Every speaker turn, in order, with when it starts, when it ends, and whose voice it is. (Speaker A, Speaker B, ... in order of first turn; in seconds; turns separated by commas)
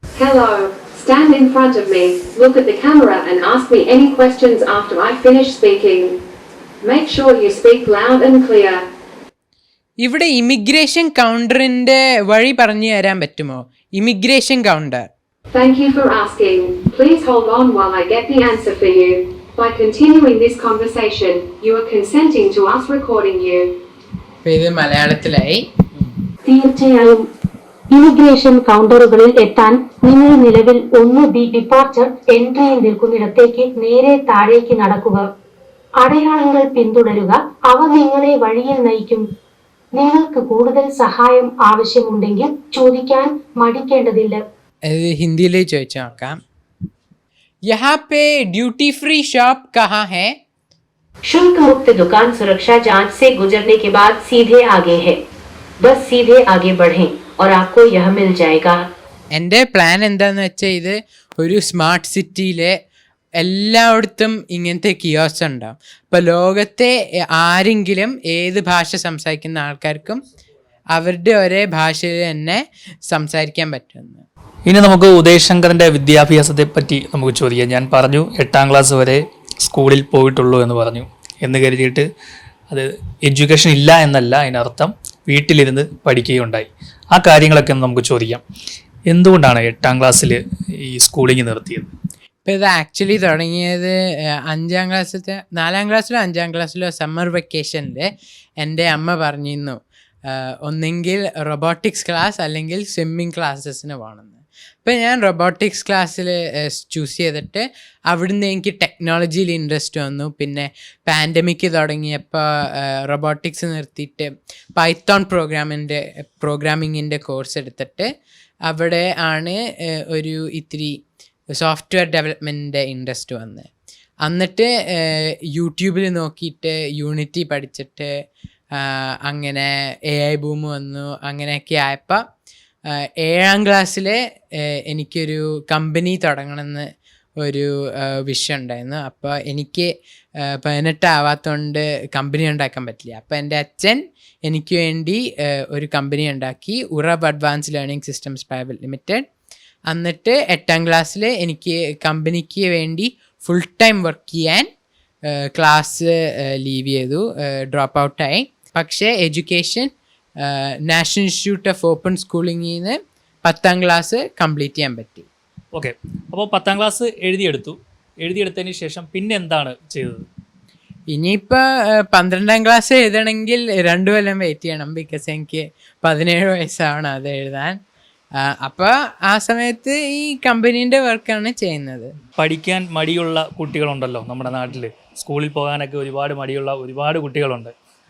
Speaker A: 0.2-6.2, Speaker A: 6.8-8.8, Speaker B: 10.0-15.1, Speaker A: 15.5-23.7, Speaker B: 24.4-25.6, Speaker C: 26.4-27.2, Speaker C: 27.9-35.3, Speaker C: 36.0-39.2, Speaker C: 39.9-44.4, Speaker B: 44.9-46.4, Speaker B: 47.7-50.4, Speaker D: 51.2-55.2, Speaker D: 55.8-58.9, Speaker B: 59.3-62.8, Speaker B: 63.4-70.2, Speaker B: 70.9-74.2, Speaker E: 74.7-82.0, Speaker E: 82.7-88.4, Speaker E: 89.1-91.9, Speaker B: 92.5-98.1, Speaker B: 98.6-118.1, Speaker B: 118.7-121.0, Speaker B: 121.6-123.7, Speaker B: 124.2-128.1, Speaker B: 128.8-132.2, Speaker B: 133.2-136.9, Speaker B: 137.4-149.2, Speaker B: 149.9-154.7, Speaker B: 155.3-159.9, Speaker B: 160.4-165.3, Speaker E: 165.7-170.2, Speaker B: 171.1-177.8, Speaker B: 178.4-182.1, Speaker E: 182.4-187.7